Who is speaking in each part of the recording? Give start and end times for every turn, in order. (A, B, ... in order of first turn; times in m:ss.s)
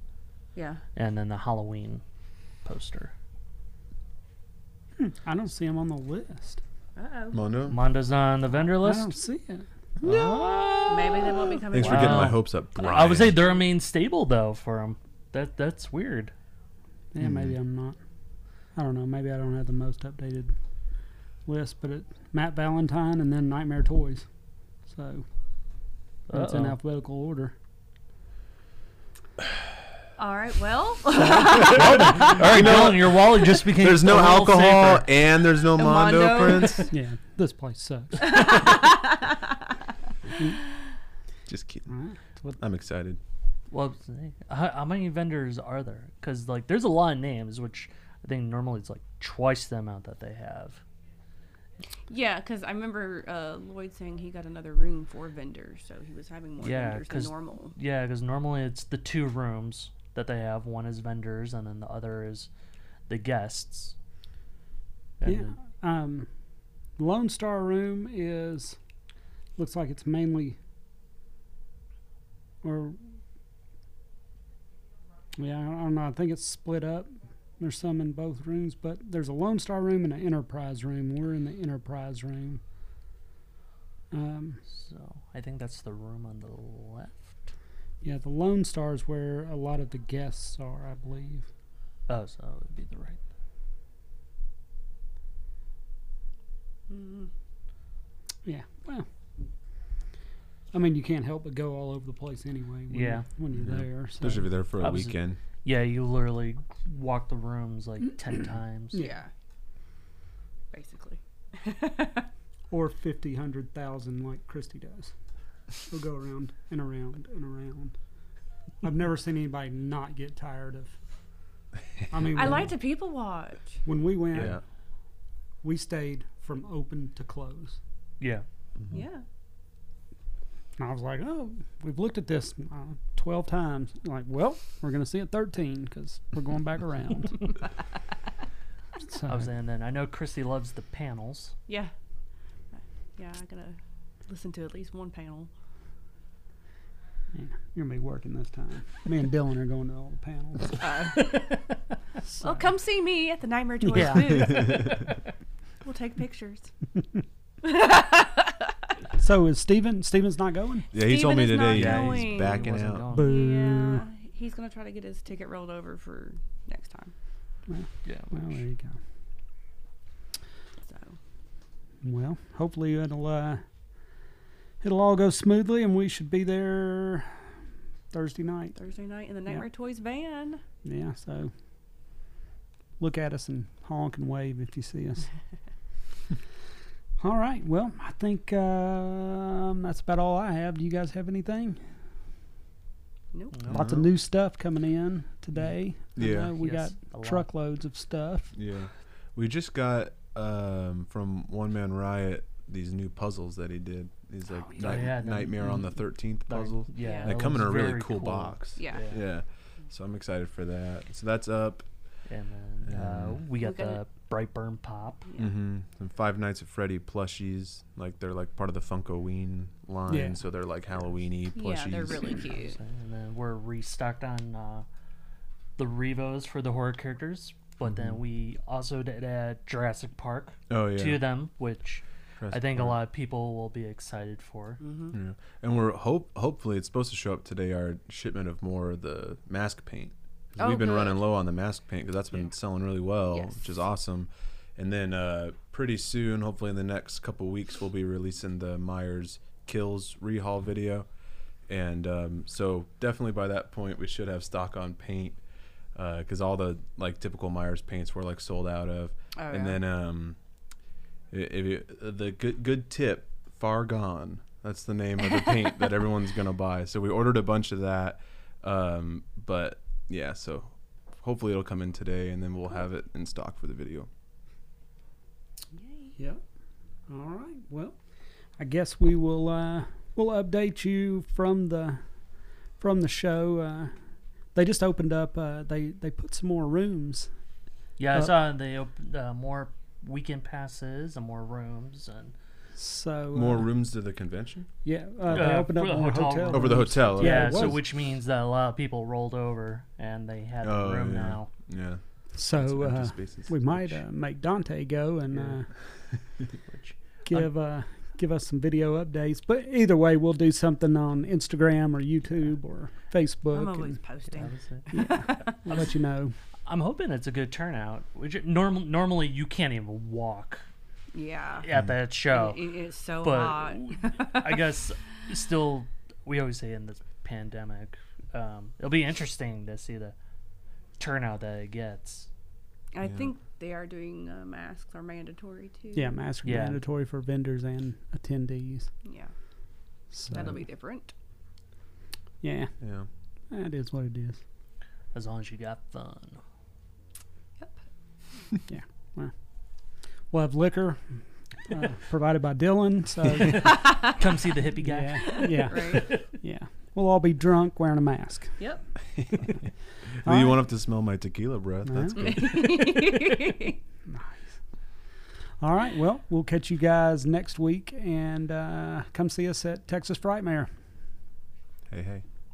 0:00.5-0:00.8 A
0:00.9-0:02.0 B
0:02.6-0:03.1 B
0:05.0-0:06.6 C
0:07.0-0:07.4 A
0:07.3-0:07.8 D
0:07.7-0:09.1 B
0:08.8-0:09.6 C
0:10.0-0:11.2 B
0:10.0-0:13.4 D
0:10.9-0:12.4 A
0:11.7-0:16.3 B
0:17.1-0:18.0 C
0:17.2-0:17.5 D
0:18.7-0:20.5 C
0:21.4-0:24.2 C
0:24.8-0:25.2 C
0:26.3-0:26.8 B
0:26.3-0:27.5 C
0:30.2-0:32.4 A
0:31.2-0:32.3 C
0:31.5-0:35.1 B
0:31.7-0:36.9 D
0:35.7-0:36.9 A
0:36.9-0:38.5 C
0:38.2-0:39.6 A
0:41.5-0:41.9 D
0:41.9-0:42.6 C
0:42.6-0:43.2 D
0:43.7-0:50.8 B
0:52.1-0:57.8 A
0:56.6-1:02.5 B
1:03.1-1:03.9 B
1:05.2-1:05.5 B
1:05.2-1:06.3 C
1:07.0-1:08.8 C
1:09.6-1:10.6 C
1:12.6-1:13.0 C
1:15.4-1:22.6 C
1:24.1-1:24.6 C
1:24.7-1:27.4 B
1:28.0-1:31.5 C
1:32.1-1:33.2 B
1:36.9-1:37.3 A
1:38.4-1:39.1 C
1:40.7-1:44.4 C
1:42.9-1:43.2 B
1:43.6-1:45.4 D
1:44.8-1:49.0 B
1:48.9-1:49.3 A
1:50.7-1:52.3 A
1:52.7-1:55.1 C
1:55.8-1:58.0 C
1:58.8-2:01.0 C
2:02.1-2:02.7 C
2:02.3-2:03.8 A
2:03.8-2:04.6 C
2:04.3-2:04.6 D
2:05.6-2:07.8 C
2:08.9-2:09.2 A
2:10.8-2:17.5 C
2:19.1-2:19.5 C
2:19.2-2:21.5 B
2:22.7-2:25.5 A
2:27.3-2:30.8 C
2:30.8-2:31.6 A
2:32.3-2:32.7 C
2:32.4-2:35.1 A
2:33.8-2:34.8 C
2:35.8-2:36.7 A
2:37.6-2:38.6 A
2:39.2-2:40.9 C
2:40.9-2:43.0 D
2:40.9-2:47.1 A
2:41.7-2:43.4 B
2:43.1-2:44.0 C
2:47.7-2:49.0 C
2:48.0-2:48.6 B
2:50.8-2:51.2 A
2:52.0-2:53.6 C
2:54.8-2:57.4 C
2:58.1-2:58.8 C
2:58.8-3:00.6 A
3:00.8-3:01.5 C
3:03.0-3:05.3 C
3:07.2-3:11.8 C
3:13.3-3:13.6 A
3:13.5-3:13.8 B
3:13.7-3:18.5 C
3:13.7-3:14.1 D
3:16.2-3:16.5 D
3:16.2-3:17.5 B
3:18.5-3:31.8 D
3:24.8-3:25.9 B
3:24.8-3:25.0 C
3:26.5-3:29.2 B
3:27.0-3:27.4 A
3:28.8-3:29.1 A
3:32.3-3:35.2 B
3:32.9-3:33.4 D
3:33.6-3:34.0 A
3:35.4-3:42.3 D
3:40.1-3:40.4 C
3:41.5-3:42.8 A
3:42.4-3:44.8 B
3:45.8-3:54.8 B
3:47.8-3:48.2 D
3:50.7-3:51.2 D
3:52.4-3:53.0 D
3:54.8-3:55.1 A
3:55.1-4:11.1 D
4:00.6-4:01.2 A
4:03.3-4:03.6 A
4:11.7-4:15.4 D
4:15.9-4:20.4 D
4:19.4-4:19.8 A
4:21.3-4:34.1 D
4:35.8-4:36.1 A
4:37.1-4:38.0 C
4:38.6-4:42.0 C
4:42.8-4:43.9 C
4:44.5-4:47.3 C
4:48.0-4:52.3 B
4:52.8-4:53.7 C
4:53.3-4:54.7 D
4:54.8-4:57.8 C
4:55.3-5:01.5 B
4:56.5-4:57.8 D
5:00.6-5:04.0 D
5:02.4-5:05.7 C
5:06.7-5:07.5 B
5:07.2-5:14.0 C
5:13.5-5:15.6 A
5:14.3-5:14.9 B
5:14.9-5:16.3 C
5:16.6-5:20.6 B
5:21.1-5:21.7 A
5:21.6-5:22.7 B
5:22.3-5:24.6 A
5:23.2-5:30.1 B
5:31.0-5:32.3 B
5:32.9-5:36.2 A
5:33.0-5:33.3 D
5:35.9-5:38.9 C
5:36.4-5:36.8 B
5:39.0-5:39.3 A
5:40.1-5:40.5 C
5:40.3-5:41.1 A
5:42.4-5:42.7 C
5:42.8-5:43.1 D
5:43.5-5:44.4 C
5:45.1-5:46.4 B
5:48.7-5:49.3 C
5:50.3-5:51.2 C
5:51.7-5:53.8 C
5:53.5-5:56.2 B
5:53.6-5:54.1 A
5:54.8-5:58.6 C
5:55.2-5:56.1 A
5:58.6-5:58.8 A
6:00.2-6:00.6 C
6:00.2-6:03.1 D
6:01.8-6:02.2 C
6:02.1-6:03.8 A
6:04.0-6:04.6 C
6:05.6-6:10.7 C
6:11.9-6:12.2 D